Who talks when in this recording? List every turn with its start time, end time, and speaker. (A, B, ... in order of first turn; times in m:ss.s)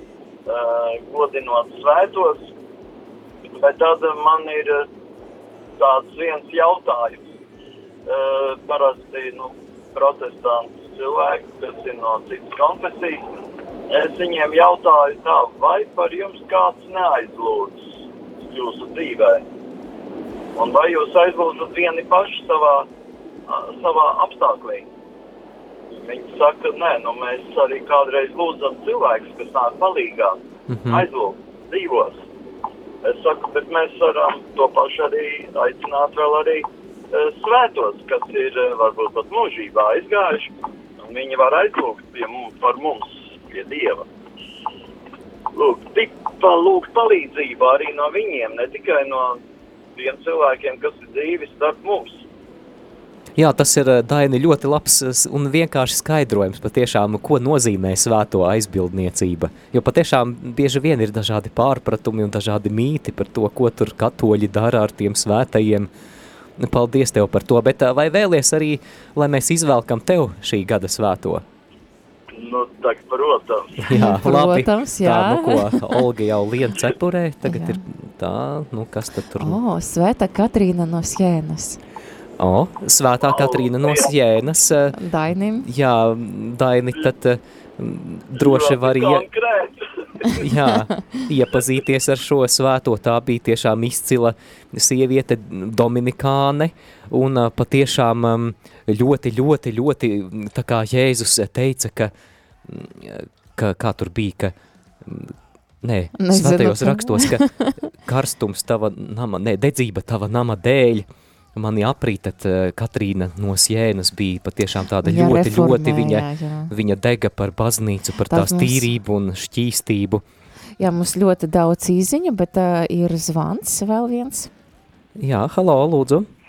0:00.5-0:02.5 A
0:03.5-0:04.9 A
0:05.8-0:07.3 A
0:08.1-0:13.3 A
0:13.9-0:19.4 A
0:20.6-0:22.9 A
0:23.5-0:24.9 A
0:25.9-0:32.2 A
0:30.7-0:31.1 B
0:33.0-0:44.1 A
0:45.6-0:49.4 A
0:50.0-0:52.2 A
0:53.4-1:05.9 B
1:06.6-1:11.4 B
1:12.3-1:13.8 A
1:13.8-1:19.6 B
1:13.9-1:16.0 C
1:17.4-1:17.8 C
1:19.4-1:21.8 C
1:22.4-1:25.0 B
1:23.2-1:24.1 A
1:25.0-1:25.7 C
1:25.6-1:29.3 B
1:28.4-1:30.5 A
1:30.4-1:42.1 B
1:42.6-2:00.2 B
1:46.2-1:47.7 C
1:55.0-1:56.7 C
1:58.3-1:58.9 C
2:00.8-2:04.5 C
2:05.2-2:06.3 B